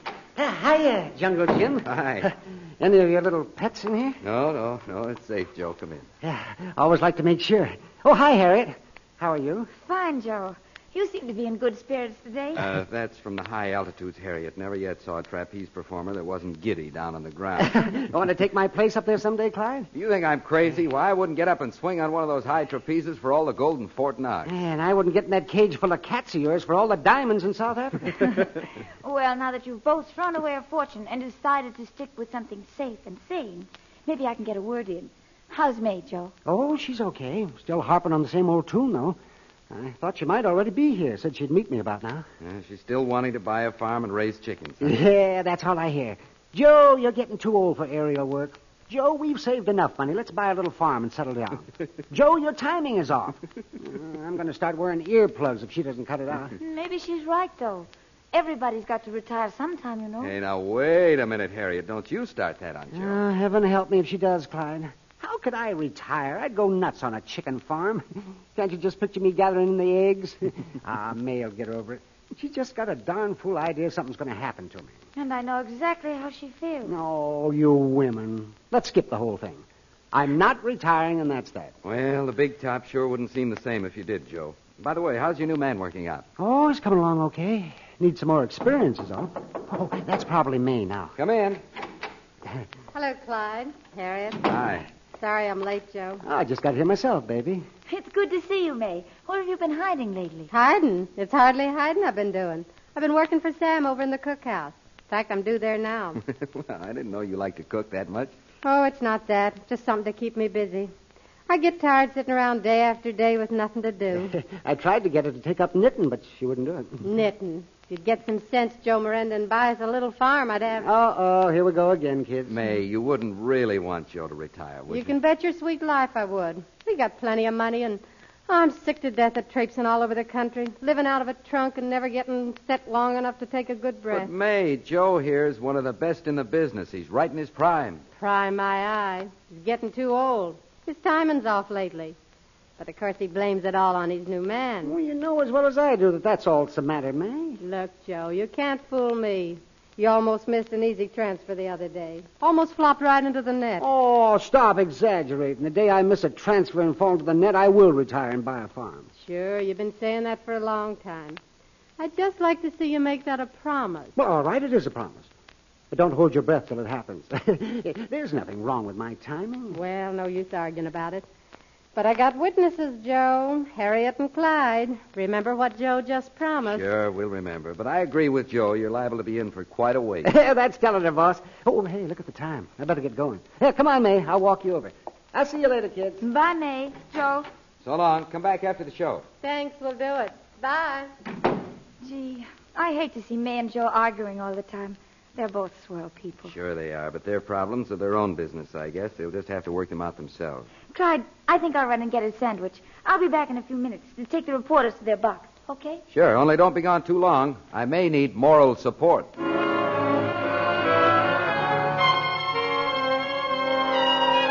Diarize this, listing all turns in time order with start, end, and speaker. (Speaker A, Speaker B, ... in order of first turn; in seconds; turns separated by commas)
Speaker A: 0.4-4.2, Speaker B: 1.8-2.3, Speaker B: 4.2-6.0, Speaker A: 6.2-9.7, Speaker C: 9.8-12.7, Speaker B: 12.6-17.7, Speaker A: 17.6-19.9, Speaker B: 19.9-24.5, Speaker A: 24.4-28.5, Speaker C: 29.0-36.3, Speaker A: 36.5-39.2, Speaker A: 39.7-42.2, Speaker B: 42.4-44.9, Speaker A: 44.8-56.5, Speaker C: 56.6-60.3, Speaker B: 60.2-63.2, Speaker A: 62.9-74.9, Speaker C: 75.1-76.9, Speaker A: 76.8-81.7, Speaker B: 81.8-86.2, Speaker A: 86.4-91.1, Speaker B: 91.2-91.6, Speaker D: 92.9-94.5, Speaker B: 94.4-94.8, Speaker D: 95.1-96.2, Speaker A: 96.2-97.6, Speaker C: 97.9-100.5, Speaker D: 100.5-106.2, Speaker B: 106.2-108.3, Speaker D: 108.6-110.9, Speaker D: 111.5-114.3, Speaker A: 114.3-117.0, Speaker D: 117.0-120.9, Speaker A: 120.8-122.6, Speaker B: 122.5-125.1, Speaker D: 124.9-134.3, Speaker B: 134.1-138.0, Speaker D: 138.2-142.2, Speaker D: 142.8-144.9, Speaker A: 144.8-147.6, Speaker D: 147.6-153.8, Speaker A: 153.8-159.1, Speaker D: 159.2-161.4, Speaker D: 162.0-164.1, Speaker A: 164.2-165.3, Speaker A: 165.9-169.8, Speaker D: 169.7-171.2, Speaker D: 171.9-176.9, Speaker B: 176.7-180.3, Speaker A: 180.2-186.2, Speaker C: 186.2-187.5, Speaker B: 187.8-189.2, Speaker D: 189.4-191.1, Speaker C: 192.0-196.5, Speaker B: 196.4-200.7, Speaker C: 200.9-206.0, Speaker B: 206.1-209.3